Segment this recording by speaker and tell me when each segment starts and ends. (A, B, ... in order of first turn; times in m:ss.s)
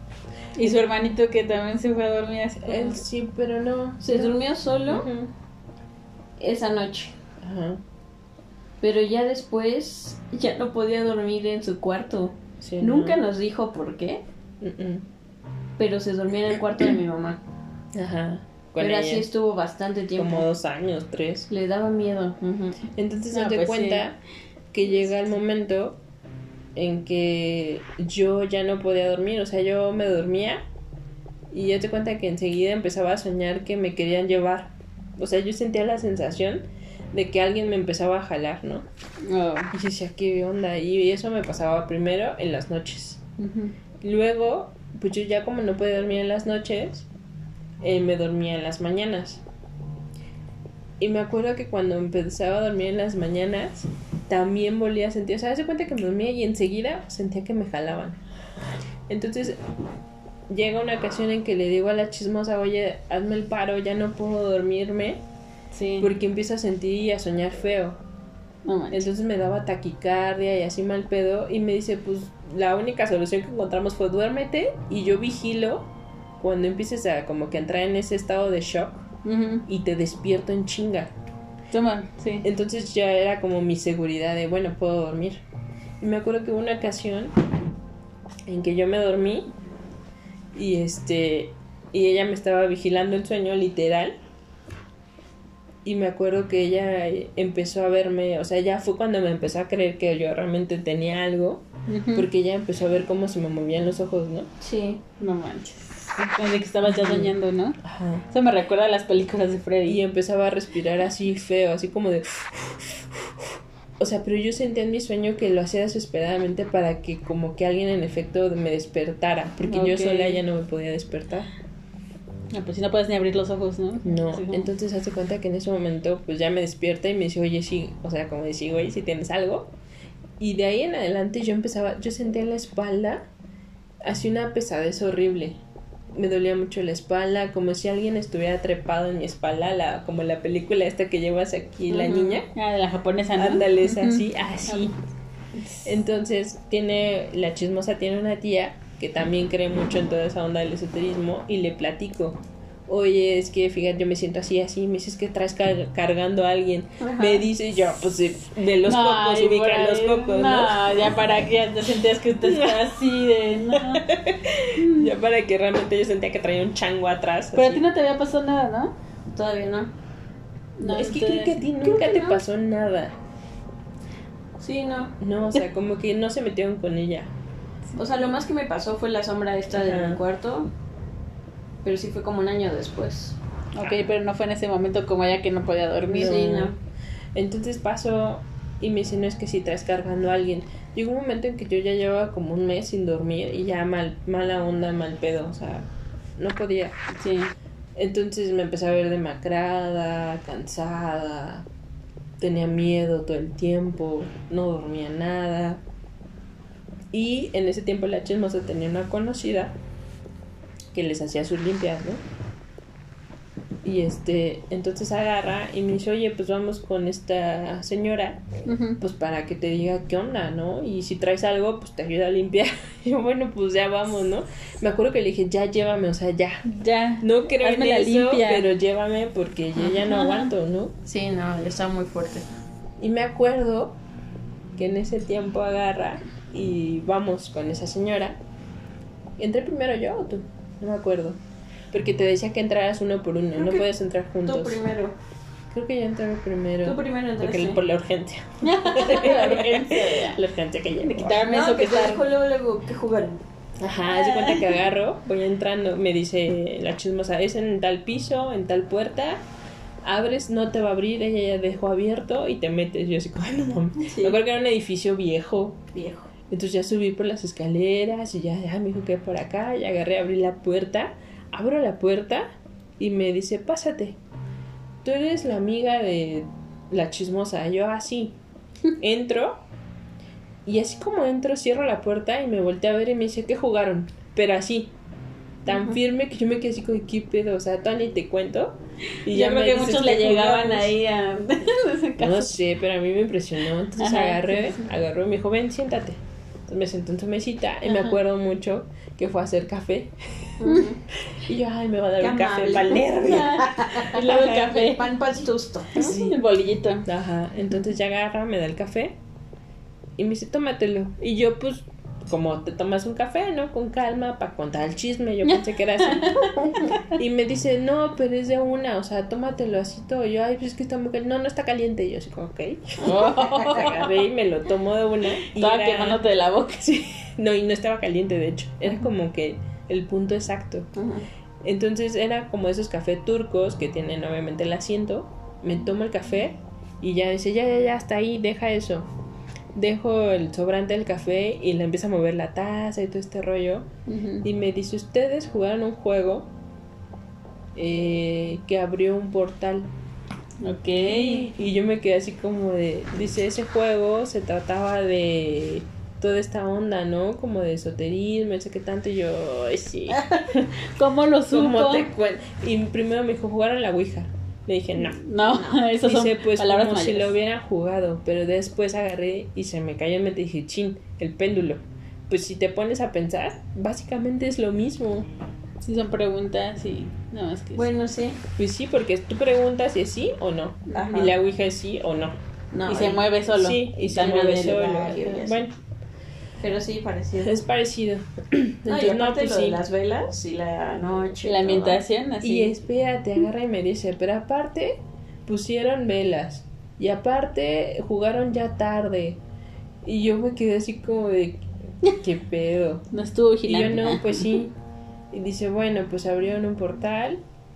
0:00.6-0:03.0 A
0:02.6-0:04.4 B
0:04.0-0:05.1 C
0:04.9-0:05.3 B
0:06.4-0:07.1 C
0:07.4-0:07.8 B
0:08.8-0:14.2 C
0:12.6-0:13.2 B
0:14.6-0:15.1 B
0:15.8-0:17.4 C
0:17.9-0:19.3 B
0:18.8-0:20.5 C
0:20.2-0:21.5 B
0:21.5-0:22.8 C
0:23.0-0:24.2 B
0:23.3-0:24.0 A
0:24.7-0:26.0 B
0:26.8-0:30.6 B
0:31.5-0:38.8 B
0:39.2-0:39.7 A
0:39.7-0:43.2 B
0:43.4-0:43.8 A
0:44.0-0:47.1 B
0:47.8-0:49.4 B
0:51.0-0:58.2 B
0:59.1-0:59.6 B
1:00.5-1:05.2 B
1:05.7-1:06.1 A
1:06.0-1:08.0 B
1:08.6-1:09.0 A
1:08.9-1:19.0 B
1:19.2-1:19.6 A
1:19.6-1:21.1 B
1:21.7-1:22.5 A
1:22.4-1:25.4 B
1:26.0-1:27.4 B
1:28.5-1:29.5 B
1:30.5-1:34.2 B
1:35.8-1:44.5 B
1:41.9-1:42.3 A
1:44.6-1:45.0 C
1:45.2-1:47.8 A
1:46.9-1:48.2 B
1:48.3-1:50.0 A
1:49.9-2:01.5 B
1:59.6-2:00.4 A
2:02.5-2:04.7 A
2:04.0-2:09.7 B
2:10.4-2:13.2 B
2:14.0-2:15.6 B
2:16.1-2:22.5 B
2:21.9-2:22.4 C
2:22.5-2:24.9 A
2:23.4-2:24.9 B
2:25.6-2:25.9 A
2:25.8-2:40.9 B
2:37.0-2:37.5 C
2:38.8-2:44.0 A
2:42.4-2:47.8 B
2:44.8-2:45.1 A
2:47.5-2:48.9 A
2:49.3-2:49.9 C
2:50.8-2:51.6 A
2:50.8-2:53.1 B
2:51.8-2:52.4 C
2:54.6-2:55.1 C
2:55.2-2:57.3 B
2:58.0-3:00.7 C
2:59.8-3:00.2 B
3:01.8-3:03.4 C
3:03.8-3:06.6 A
3:03.8-3:04.1 B
3:06.1-3:06.7 B
3:06.1-3:06.8 C
3:07.3-3:16.9 B
3:17.2-3:17.5 A
3:18.0-3:21.7 B
3:22.4-3:25.8 B
3:27.1-3:29.8 B
3:30.9-3:32.2 B
3:33.8-3:38.4 B
3:38.6-3:39.0 A
3:39.0-3:46.6 B
3:46.7-3:48.7 A
3:47.2-3:50.9 B
3:49.9-3:50.5 A
3:51.0-3:52.4 C
3:53.0-3:54.0 B
3:54.8-3:58.4 B
3:59.4-4:01.4 B
4:01.9-4:04.8 B
4:03.6-4:03.9 C
4:04.4-4:05.2 C
4:05.7-4:11.4 B
4:06.8-4:07.8 C
4:08.6-4:10.4 A
4:11.0-4:12.2 A
4:11.4-4:13.4 C
4:13.8-4:19.4 B
4:14.1-4:14.7 A
4:20.0-4:25.8 B
4:24.0-4:24.4 C
4:25.9-4:26.3 C
4:26.5-4:32.5 B
4:33.0-4:34.2 B
4:35.0-4:38.4 B
4:39.0-4:39.6 B
4:40.6-4:44.9 B
4:45.6-4:51.0 B
4:49.3-4:52.5 A
4:52.2-5:00.6 B
4:54.0-4:54.8 A
5:00.6-5:01.0 C
5:01.2-5:04.7 B
5:02.2-5:06.1 C
5:03.2-5:05.1 A
5:05.9-5:07.1 A
5:06.0-5:06.4 B
5:07.0-5:09.2 B
5:10.2-5:26.2 B
5:16.0-5:17.0 A
5:23.0-5:24.1 A
5:25.4-5:27.1 A
5:27.3-5:30.9 B
5:30.9-5:31.2 C
5:31.6-5:39.1 B
5:39.8-5:43.9 B
5:44.1-5:44.4 A
5:44.4-5:46.5 B
5:47.8-5:49.9 B
5:50.6-5:51.5 A
5:51.0-6:00.7 B
6:00.1-6:02.1 A
6:01.5-6:05.2 B
6:05.1-6:07.3 A
6:05.4-6:05.8 C
6:06.0-6:15.3 B
6:15.8-6:17.9 A
6:17.8-6:18.4 C
6:18.6-6:22.3 B
6:20.9-6:21.3 A
6:20.9-6:21.3 C
6:22.7-6:23.2 C
6:22.9-6:25.2 A
6:23.5-6:25.7 B
6:24.7-6:25.6 C
6:26.6-6:27.6 C
6:27.4-6:29.8 B
6:28.9-6:32.0 C
6:31.4-6:32.7 A
6:32.4-6:39.4 B
6:40.0-6:43.0 B
6:43.1-6:44.6 A
6:43.6-6:44.7 B
6:45.3-6:47.4 B